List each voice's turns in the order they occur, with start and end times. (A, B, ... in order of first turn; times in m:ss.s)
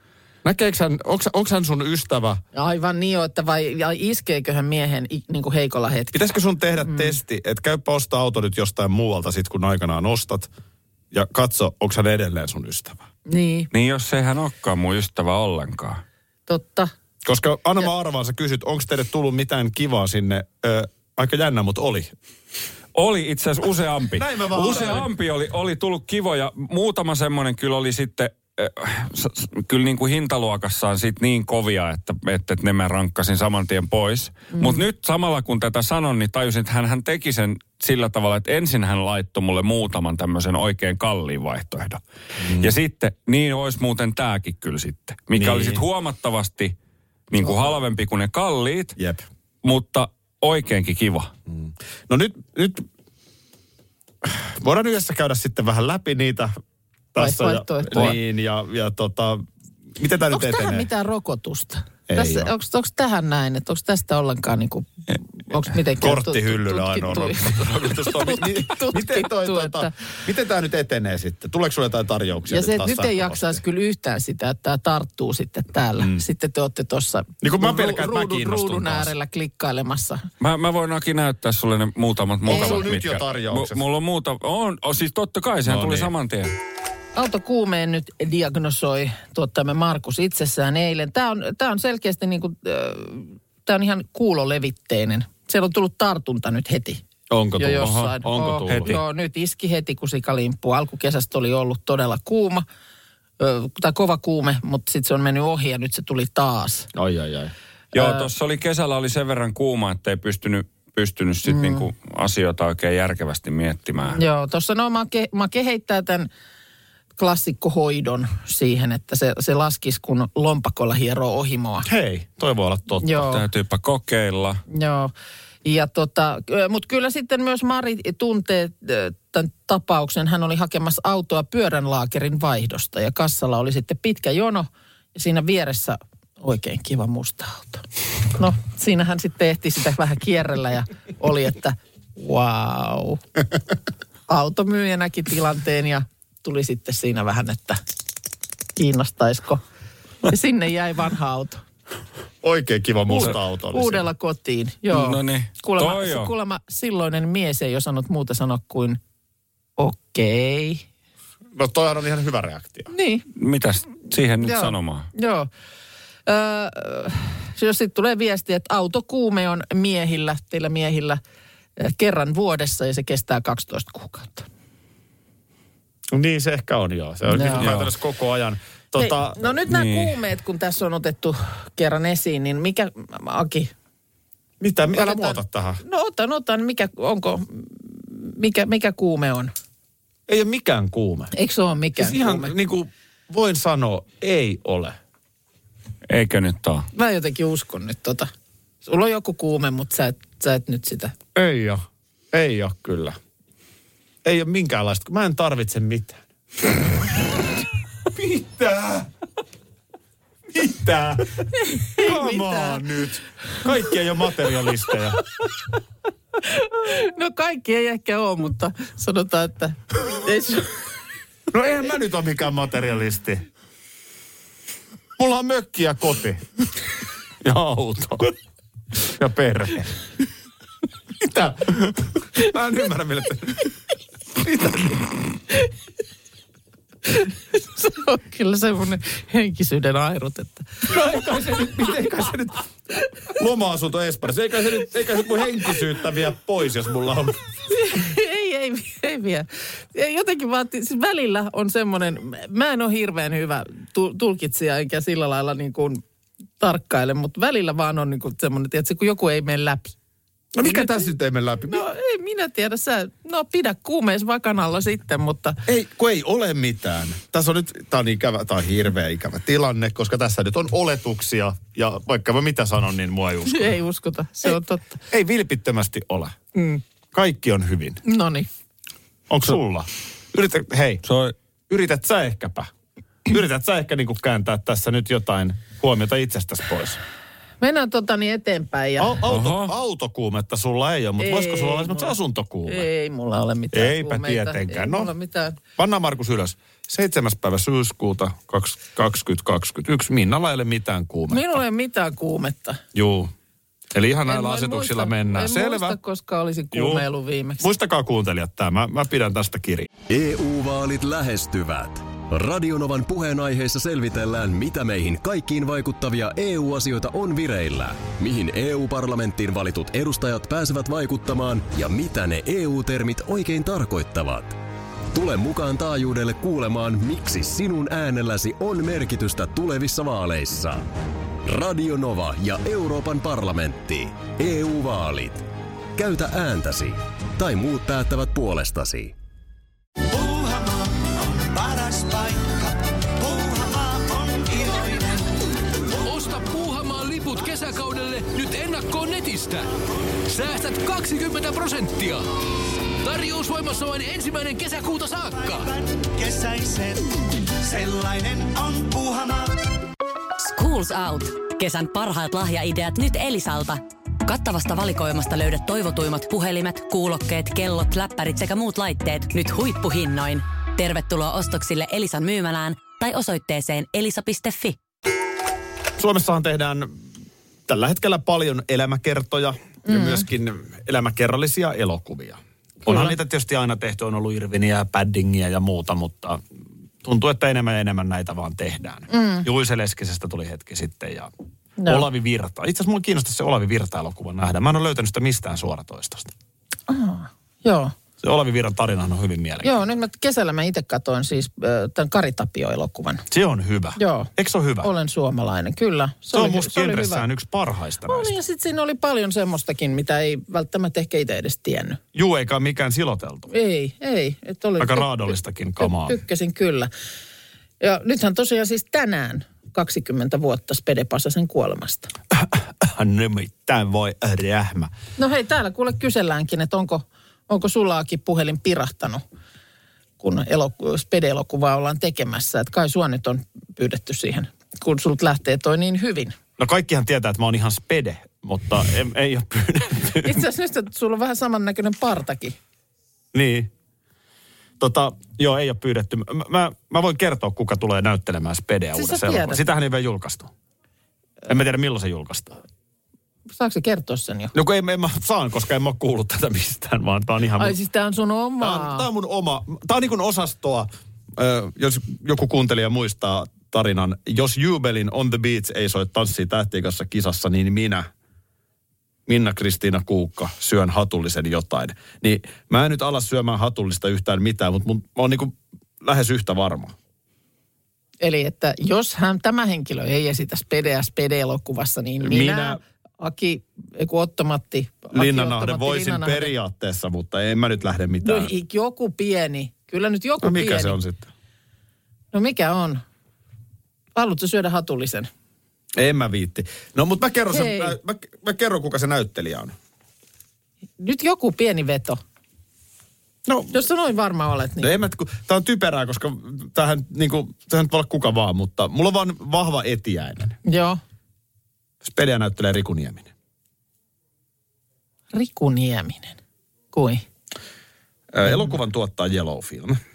0:00.4-0:02.4 A
0:02.5-0:06.2 B
0:06.1-0:10.5 A
0:06.8-0:07.2 B
0:11.1-0:13.1 A
0:13.3-0:13.7 B
0:13.7-0:16.0 C
0:16.5-0:16.9 B
0:17.2-0:22.1 A
0:23.0-0:46.8 C
0:24.1-0:25.1 A
0:34.5-0:34.8 B
0:42.4-0:42.7 A
0:45.3-0:45.8 A
0:47.3-0:49.0 C
0:49.0-0:49.2 A
0:49.6-0:51.3 C
0:51.5-0:52.9 A
0:54.2-0:56.6 A
0:57.1-1:00.9 A
0:57.2-0:58.2 B
1:00.3-1:09.9 B
1:02.1-1:02.5 A
1:06.0-1:13.6 A
1:12.5-1:20.3 B
1:16.0-1:16.2 A
1:17.4-1:19.1 A
1:20.4-1:26.5 C
1:22.4-1:23.8 A
1:22.5-1:22.8 B
1:25.6-1:26.1 A
1:27.2-1:37.0 B
1:37.3-1:39.0 A
1:37.6-1:42.6 B
1:38.7-1:39.0 C
1:43.4-1:46.9 B
1:46.9-1:47.5 A
1:47.9-1:48.3 B
1:47.9-1:54.2 C
1:51.5-1:51.8 B
1:54.1-1:56.3 B
1:57.2-2:01.9 B
2:01.8-2:03.2 A
2:03.0-2:03.4 B
2:03.1-2:04.6 C
2:04.7-2:05.1 B
2:05.6-2:23.2 B
2:24.3-2:27.8 B
2:28.8-2:29.6 B
2:30.3-2:31.6 B
2:32.4-2:34.0 A
2:33.1-2:39.0 B
2:34.9-2:36.3 C
2:39.8-2:40.9 B
2:41.5-2:42.9 A
2:42.9-2:43.3 B
2:43.4-2:45.1 C
2:44.4-2:45.5 B
2:46.3-2:51.2 B
2:51.8-2:54.5 B
2:56.1-2:59.6 A
2:57.3-2:57.7 B
2:57.6-2:57.9 C
2:59.0-3:03.7 B
2:59.7-3:00.1 C
3:04.6-3:05.8 A
3:04.9-3:09.5 B
3:10.3-3:11.3 A
3:11.3-3:12.5 B
3:12.0-3:15.0 A
3:16.1-3:16.9 C
3:17.0-3:18.3 B
3:18.8-3:21.2 B
3:21.4-3:23.2 A
3:24.2-3:26.2 A
3:28.1-3:29.1 A
3:30.5-3:35.2 A
3:31.6-3:32.8 B
3:36.4-3:40.8 B
3:41.5-3:43.4 A
3:45.2-3:46.4 A
3:47.4-3:48.3 A
3:49.0-3:50.0 A
3:51.2-3:53.7 A
3:54.4-3:55.2 A
3:57.1-4:00.9 B
4:00.9-4:02.6 A
4:03.3-4:07.4 A
4:07.7-4:16.0 B
4:16.6-4:20.0 B
4:20.6-4:21.8 A
4:20.6-4:21.1 B
4:21.7-4:25.6 B
4:25.7-4:33.8 A
4:33.5-4:35.0 B
4:35.1-4:36.4 A
4:36.6-4:36.8 B
4:37.1-4:38.0 A
4:38.0-4:38.5 B
4:39.3-4:41.0 A
4:41.0-4:41.3 C
4:41.7-4:42.7 A
4:43.3-4:47.0 A
4:47.6-4:49.2 B
4:49.0-4:52.9 A
4:49.3-4:49.7 C
4:51.2-4:52.2 B
4:52.7-4:55.6 B
4:53.7-4:55.1 A
4:55.8-5:01.6 A
5:01.3-5:02.8 B
5:02.9-5:03.3 A
5:03.9-5:06.0 A
5:04.2-5:07.7 B
5:06.7-5:07.1 A
5:07.6-5:09.9 A
5:10.1-5:24.6 D
5:25.1-5:30.9 D
5:31.4-5:39.2 D
5:40.1-5:45.4 E
5:46.0-5:49.7 F
5:50.3-5:52.2 F
5:53.0-5:55.7 F
5:55.3-5:59.6 E
6:00.4-6:14.8 G
6:16.0-6:17.0 A
6:17.7-6:26.4 A
6:19.9-6:20.2 B
6:22.9-6:23.2 B
6:27.0-6:31.3 A
6:29.1-6:29.5 B
6:31.8-6:32.1 B
6:31.9-6:36.3 A
6:36.9-6:38.0 B
6:38.2-6:39.9 A
6:39.6-6:43.2 B
6:43.3-6:44.9 A
6:44.0-6:44.3 B
6:44.8-6:47.3 B
6:46.3-6:48.3 A
6:48.1-6:52.0 B
6:52.1-6:53.5 A
6:53.5-6:56.9 B
6:54.8-6:56.2 A
6:57.8-7:02.1 B
7:02.3-7:04.9 A
7:05.2-7:09.2 B
7:10.2-7:16.4 B
7:16.6-7:20.4 A
7:20.2-7:22.6 B
7:23.3-7:23.7 A
7:24.8-7:30.5 A
7:29.0-7:29.6 B
7:31.5-7:32.6 A
7:33.5-7:34.5 B
7:34.5-7:37.8 A
7:37.6-7:39.1 B
7:38.6-7:48.1 A
7:49.3-7:56.9 A
7:58.2-8:06.5 B
8:02.2-8:02.8 A
8:05.1-8:08.5 A
8:08.2-8:11.0 B
8:10.4-8:11.3 A
8:12.3-8:13.0 B
8:14.2-8:15.3 B
8:16.0-8:19.8 A
8:17.5-8:18.0 B
8:21.0-8:22.2 B
8:23.5-8:23.8 A
8:23.7-8:24.9 B
8:24.8-8:30.6 A
8:30.6-8:31.0 B
8:32.0-8:33.3 A
8:35.3-8:36.4 B
8:36.9-8:37.2 B
8:38.3-8:40.0 A
8:38.4-8:38.7 B